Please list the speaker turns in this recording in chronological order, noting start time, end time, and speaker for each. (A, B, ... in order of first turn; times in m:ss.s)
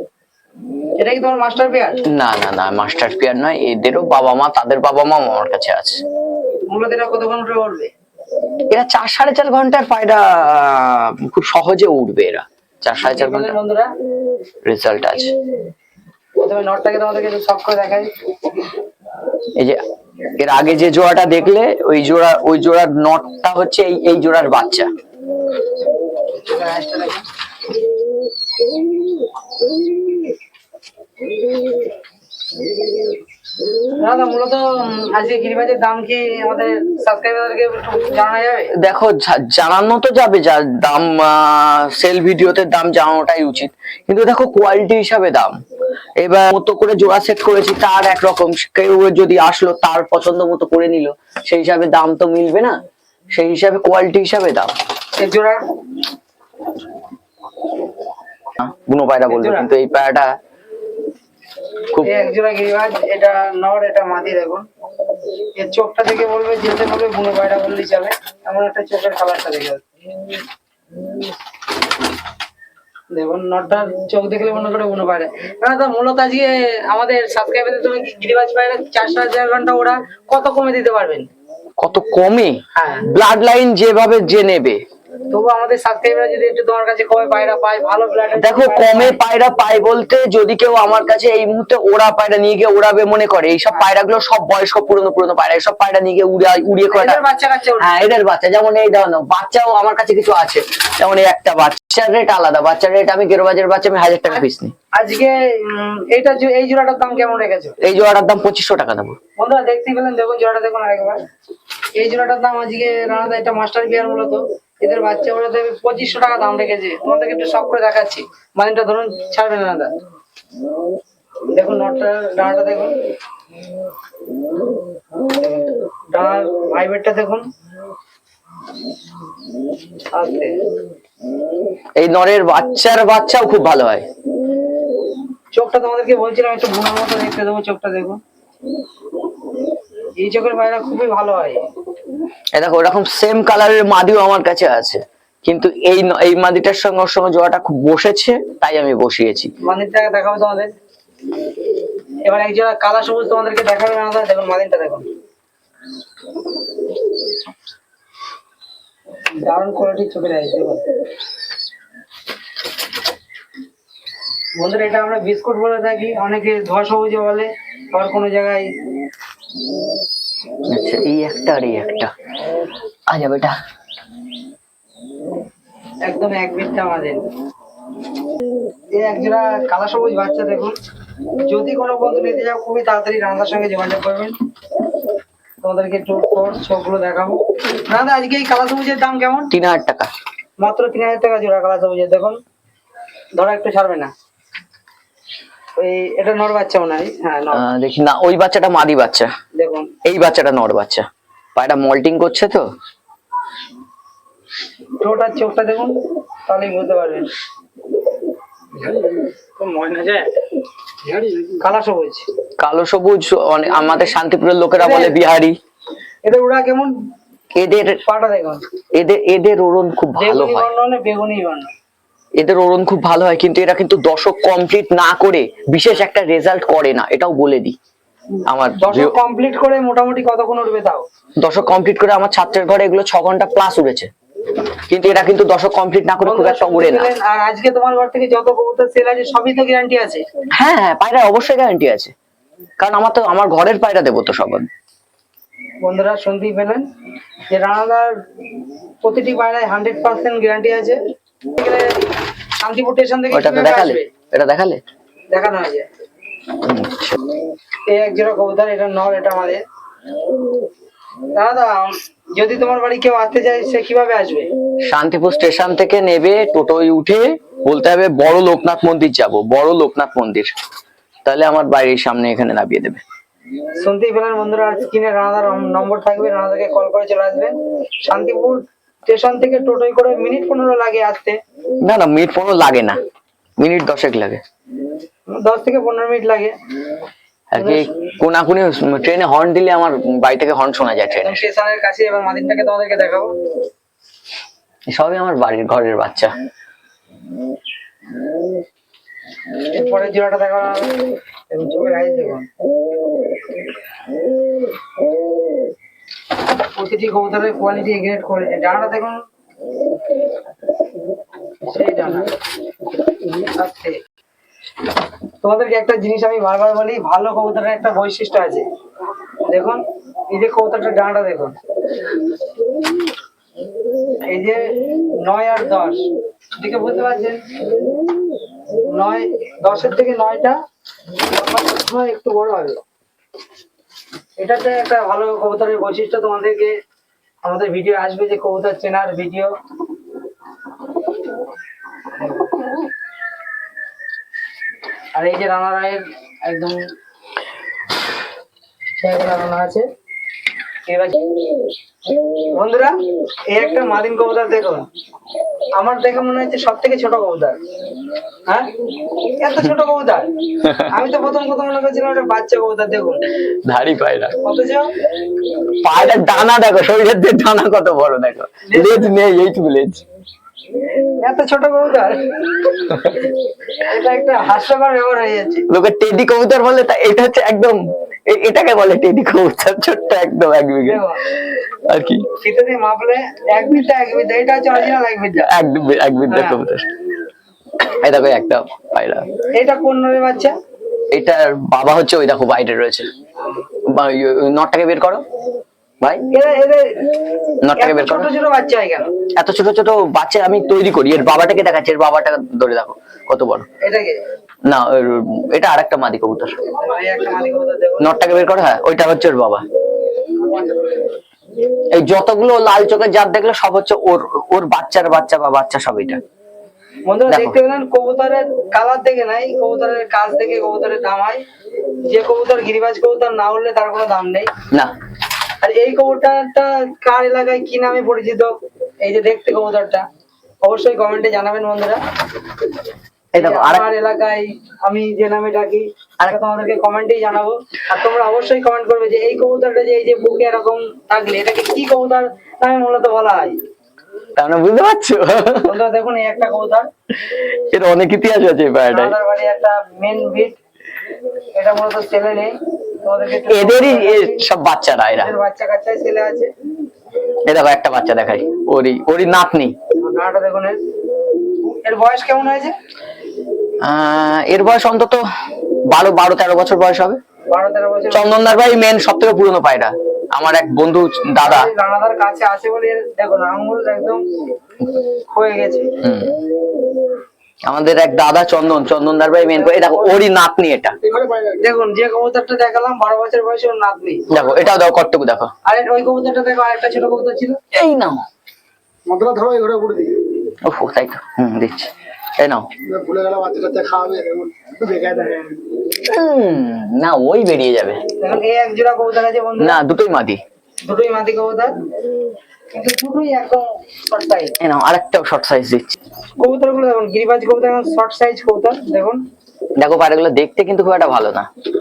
0:01.0-0:02.0 A
0:02.1-0:06.0 B
0:06.7-0:07.9 A
0:08.7-0:13.6 B
0:13.0-0:13.9 A
0:14.6-0:15.3 B
0:16.4-0:18.1 A
0:20.4-0:24.9 B
0:26.4-0:27.2 A
0:34.0-0:38.7 A
0:38.8-0:45.6 B
0:46.2-0:52.8 B
0:53.3-0:54.7 B
0:55.2-0:55.6 A
0:58.6-1:00.4 B
0:59.3-0:59.7 A
1:02.0-1:04.7 A
1:05.6-1:09.8 A
1:13.1-1:21.3 A
1:21.8-1:24.8 B
1:22.7-1:23.1 A
1:25.3-1:29.2 A
1:28.4-1:37.2 B
1:36.9-1:38.0 A
1:37.8-1:44.7 B
1:44.3-1:47.8 A
1:47.8-1:49.2 B
1:49.4-1:51.2 A
1:52.0-1:59.9 A
2:01.5-2:03.0 A
2:05.4-2:07.4 A
2:10.1-2:10.6 A
2:12.0-2:14.1 B
2:15.5-2:18.2 A
2:20.2-2:21.6 A
2:22.6-2:29.5 B
2:29.6-2:30.7 A
2:32.2-2:35.1 A
2:39.4-2:40.8 A
2:44.6-2:48.7 A
2:50.7-2:52.1 B
2:53.1-2:53.6 B
2:56.0-2:57.2 A
2:58.9-3:00.7 A
3:01.4-3:04.4 A
3:05.6-3:09.5 A
3:09.5-3:10.1 B
3:10.6-3:12.4 A
3:13.4-3:14.1 A
3:15.8-3:17.7 A
3:17.5-3:19.3 B
3:19.6-3:19.9 A
3:20.0-3:22.6 B
3:25.0-3:26.0 A
3:26.5-3:27.3 A
3:29.6-3:30.3 A
3:31.5-3:32.3 A
3:32.6-3:35.6 B
3:34.8-3:35.2 A
3:36.2-3:36.9 A
3:37.6-3:38.0 B
3:38.1-3:38.6 A
3:38.9-3:40.7 B
3:40.2-3:41.7 A
3:42.4-3:47.8 B
3:48.4-3:51.0 A
3:48.5-3:49.2 B
3:51.4-3:54.1 B
3:54.9-3:57.1 B
3:56.2-4:00.2 A
4:00.5-4:02.1 B
4:02.8-4:04.7 B
4:05.8-4:06.9 A
4:07.5-4:08.1 A
4:09.0-4:11.0 A
4:11.6-4:12.0 A
4:12.6-4:14.1 A
4:13.3-4:14.8 B
4:15.3-4:15.9 A
4:16.6-4:17.2 B
4:17.9-4:19.6 A
4:21.3-4:24.5 A
4:24.8-4:30.5 B
4:31.2-4:33.0 B
4:33.8-4:41.4 A
4:41.8-4:43.0 B
4:43.6-4:44.4 B
4:45.3-4:46.6 A
4:47.5-4:51.4 B
4:47.6-4:47.9 A
4:51.2-4:53.3 A
4:54.9-4:56.3 B
4:59.7-5:01.0 A
5:01.5-5:02.5 A
5:06.8-5:09.2 A
5:11.6-5:12.3 A
5:13.3-5:14.0 A
5:15.4-5:18.6 A
5:19.5-5:21.6 A
5:24.3-5:26.0 A
5:26.6-5:27.5 A
5:28.8-5:30.6 A
5:31.3-5:32.8 A
5:34.4-5:36.7 A
5:37.4-5:39.5 A
5:42.2-5:42.5 A
5:45.2-5:46.9 A
5:49.0-5:49.9 A
5:50.9-5:51.2 A
5:52.5-5:53.0 A
5:53.5-5:54.9 A
5:55.8-5:57.6 A
5:59.4-6:00.3 A
6:00.6-6:00.9 B
6:00.8-6:03.2 A
6:03.6-6:04.4 B
6:04.4-6:04.9 A
6:05.8-6:10.0 B
6:08.6-6:09.1 A
6:11.2-6:12.3 A
6:13.8-6:15.7 A
6:15.7-6:22.3 B
6:20.8-6:21.2 A
6:22.4-6:25.5 A
6:25.4-6:26.9 B
6:26.3-6:26.6 A
6:27.8-6:29.3 B
6:29.5-6:30.5 A
6:31.1-6:33.1 B
6:33.9-6:35.2 B
6:36.3-6:37.1 A
6:37.6-6:38.3 B
6:37.8-6:39.1 A
6:39.4-6:43.7 B
6:43.8-6:44.2 A
6:44.7-6:46.6 B
6:46.7-6:48.2 A
6:48.0-6:49.6 B
6:50.4-6:51.0 A
6:51.9-6:56.2 B
6:57.1-7:01.4 A
6:57.3-6:57.6 B
7:02.1-7:04.5 A
7:05.6-7:08.5 A
7:09.0-7:10.0 A
7:10.6-7:12.0 A
7:13.3-7:13.9 B
7:13.4-7:23.6 A
7:24.4-7:25.8 B
7:25.6-7:26.9 A
7:27.3-7:29.1 B
7:28.9-7:30.6 A
7:31.5-7:34.4 A
7:33.5-7:35.3 B
7:35.2-7:36.5 A
7:37.5-7:39.8 B
7:40.0-7:40.8 A
7:41.6-7:42.7 A
7:43.8-7:45.2 B
7:45.9-7:47.2 B
7:47.5-7:48.5 A
7:48.1-7:51.7 B
7:51.4-7:54.2 A
7:55.3-7:55.9 A
7:56.0-7:56.4 B
7:57.6-8:01.0 B
7:59.5-8:00.2 A
8:01.2-8:01.5 C
8:01.6-8:04.3 A
8:04.3-8:05.5 B
8:05.6-8:07.6 A
8:07.7-8:08.2 B
8:09.1-8:10.2 C
8:10.6-8:12.7 B
8:12.9-8:15.4 C
8:16.0-8:18.0 B
8:18.2-8:19.8 A
8:19.6-8:20.4 B
8:20.8-8:21.8 A
8:22.7-8:24.6 A
8:24.6-8:26.0 B
8:26.4-8:29.2 A
8:29.8-8:31.5 B